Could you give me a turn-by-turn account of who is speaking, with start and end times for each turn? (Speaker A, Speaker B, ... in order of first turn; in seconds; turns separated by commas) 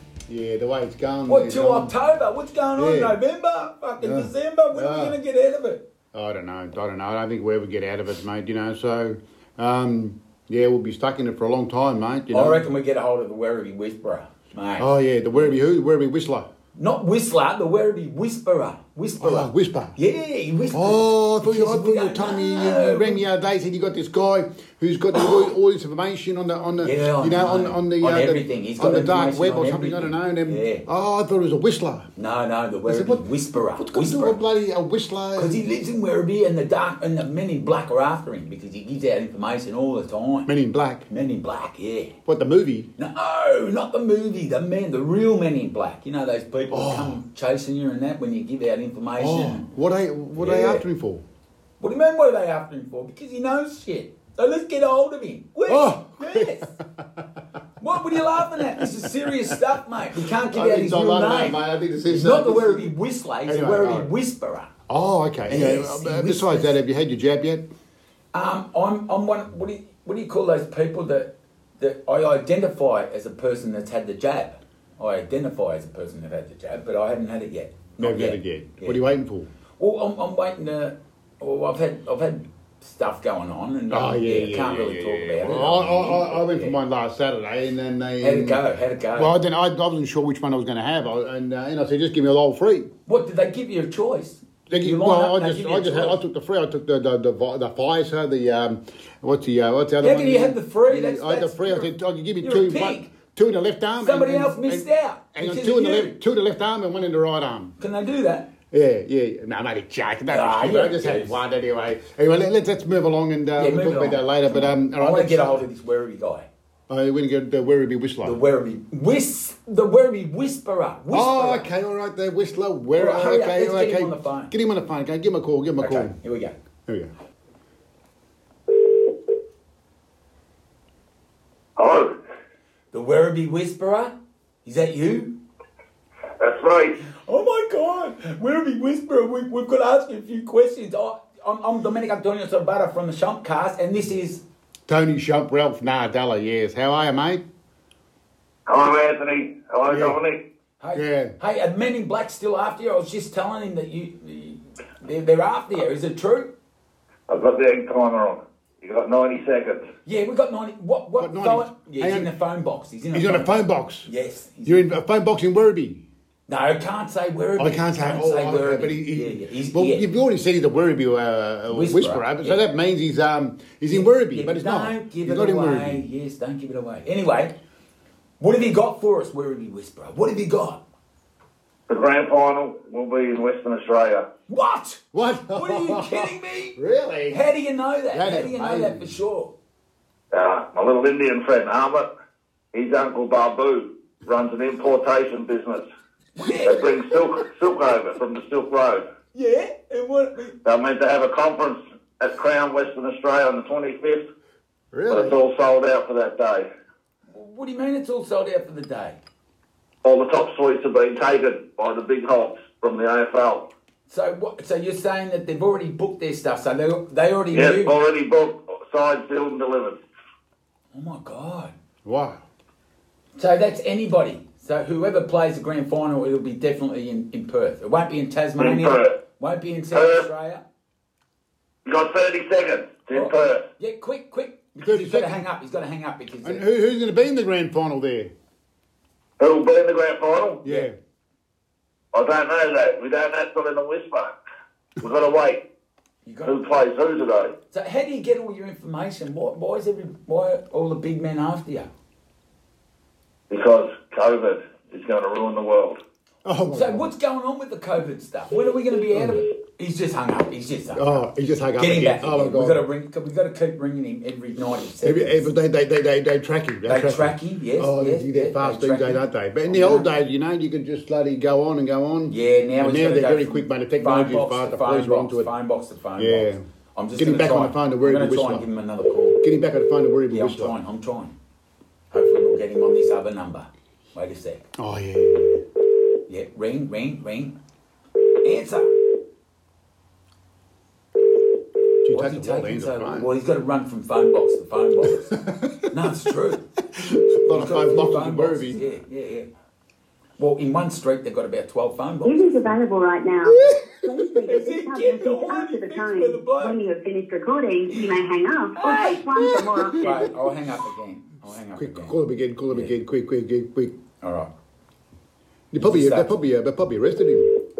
Speaker A: 0.3-1.9, Speaker B: 1.3-5.8, Speaker A: 2.8-3.2, Speaker A: 4.0-5.2, Speaker A: 6.1-12.7, Speaker B: 12.3-15.6, Speaker A: 14.8-16.5, Speaker B: 16.8-23.2, Speaker A: 19.2-20.0, Speaker A: 20.7-32.1, Speaker B: 26.8-30.9, Speaker B: 32.2-34.4, Speaker A: 32.9-33.2, Speaker A: 33.8-35.6, Speaker B: 35.4-40.5, Speaker A: 40.5-41.1, Speaker B: 41.1-42.1, Speaker A: 42.3-42.9, Speaker B: 43.0-49.7, Speaker A: 46.7-47.2, Speaker A: 49.2-51.2, Speaker B: 50.4-50.8, Speaker B: 51.8-56.7, Speaker A: 55.7-57.2, Speaker B: 57.8-64.7, Speaker A: 58.1-59.6, Speaker A: 60.4-62.9, Speaker A: 63.5-64.1, Speaker A: 64.9-67.7, Speaker B: 65.5-66.8, Speaker B: 68.3-79.0, Speaker A: 78.0-79.5, Speaker B: 79.8-86.8, Speaker A: 83.9-88.6, Speaker B: 88.2-89.3, Speaker A: 89.2-92.9, Speaker B: 93.1-96.2, Speaker A: 94.7-107.8, Speaker B: 100.0-103.1, Speaker B: 104.0-106.2, Speaker B: 107.8-108.5, Speaker A: 108.7-115.6, Speaker B: 110.3-111.4, Speaker B: 113.6-116.5, Speaker A: 116.9-118.4, Speaker B: 118.2-121.7, Speaker A: 121.1-126.2, Speaker B: 123.0-124.5, Speaker B: 125.8-126.5, Speaker C: 131.8-132.1, Speaker B: 132.9-135.3, Speaker C: 136.4-137.0, Speaker B: 137.1-144.4, Speaker A: 144.9-147.4, Speaker C: 148.7-150.4, Speaker A: 149.9-150.2, Speaker B: 150.8-156.5, Speaker A: 150.9-151.3, Speaker C: 157.3-159.9, Speaker B: 160.1-164.9, Speaker A: 161.2-162.3, Speaker A: 163.1-164.1, Speaker A: 164.7-166.0, Speaker B: 166.5-170.1, Speaker A: 167.6-176.0, Speaker B: 171.7-172.6, Speaker B: 173.9-177.6, Speaker B: 178.4-180.8, Speaker C: 181.9-184.3, Speaker B: 184.5-185.0, Speaker A: 185.1-187.4, Speaker B: 185.6-186.8, Speaker B: 187.3-189.5, Speaker A: 188.1-189.2, Speaker C: 190.3-192.1, Speaker C: 192.7-195.8, Speaker B: 196.4-196.8, Speaker C: 196.7-199.1, Speaker B: 199.3-200.6, Speaker C: 200.7-204.2, Speaker A: 204.9-205.4, Speaker C: 205.1-206.7, Speaker B: 207.3-209.2, Speaker C: 210.0-213.7, Speaker B: 214.1-217.9, Speaker C: 217.5-220.0, Speaker B: 220.9-221.7, Speaker A: 222.1-222.4, Speaker B: 223.4-230.6, Speaker C: 228.6-229.2, Speaker C: 229.9-230.2, Speaker C: 231.9-233.6, Speaker B: 233.1-236.6, Speaker A: 234.8-235.4, Speaker A: 236.4-238.3, Speaker C: 239.4-240.6, Speaker A: 240.6-240.9, Speaker C: 242.1-244.3, Speaker C: 245.0-245.6, Speaker B: 246.2-246.6, Speaker C: 246.4-247.5, Speaker B: 247.7-251.9, Speaker C: 253.5-256.0, Speaker A: 256.4-257.1, Speaker B: 256.7-261.2, Speaker A: 260.9-262.8, Speaker B: 261.8-265.5, Speaker A: 265.0-275.5, Speaker B: 266.9-270.1, Speaker B: 272.3-279.4, Speaker A: 276.2-276.6, Speaker A: 277.2-278.7, Speaker A: 279.4-280.8, Speaker B: 280.3-281.4, Speaker B: 282.1-284.7, Speaker A: 284.8-285.6, Speaker B: 286.3-287.6, Speaker B: 288.4-288.9, Speaker A: 292.0-293.3, Speaker B: 292.1-295.3, Speaker A: 295.3-295.9, Speaker B: 295.9-296.6, Speaker A: 296.9-298.8, Speaker B: 297.5-299.5, Speaker B: 300.4-302.5, Speaker D: 302.2-310.2, Speaker A: 303.4-304.1, Speaker B: 304.5-306.8, Speaker B: 307.9-308.2, Speaker B: 308.8-309.3, Speaker A: 309.3-310.5, Speaker B: 309.9-312.2, Speaker A: 311.8-313.9, Speaker B: 314.2-314.5, Speaker A: 315.7-317.5, Speaker B: 315.8-316.3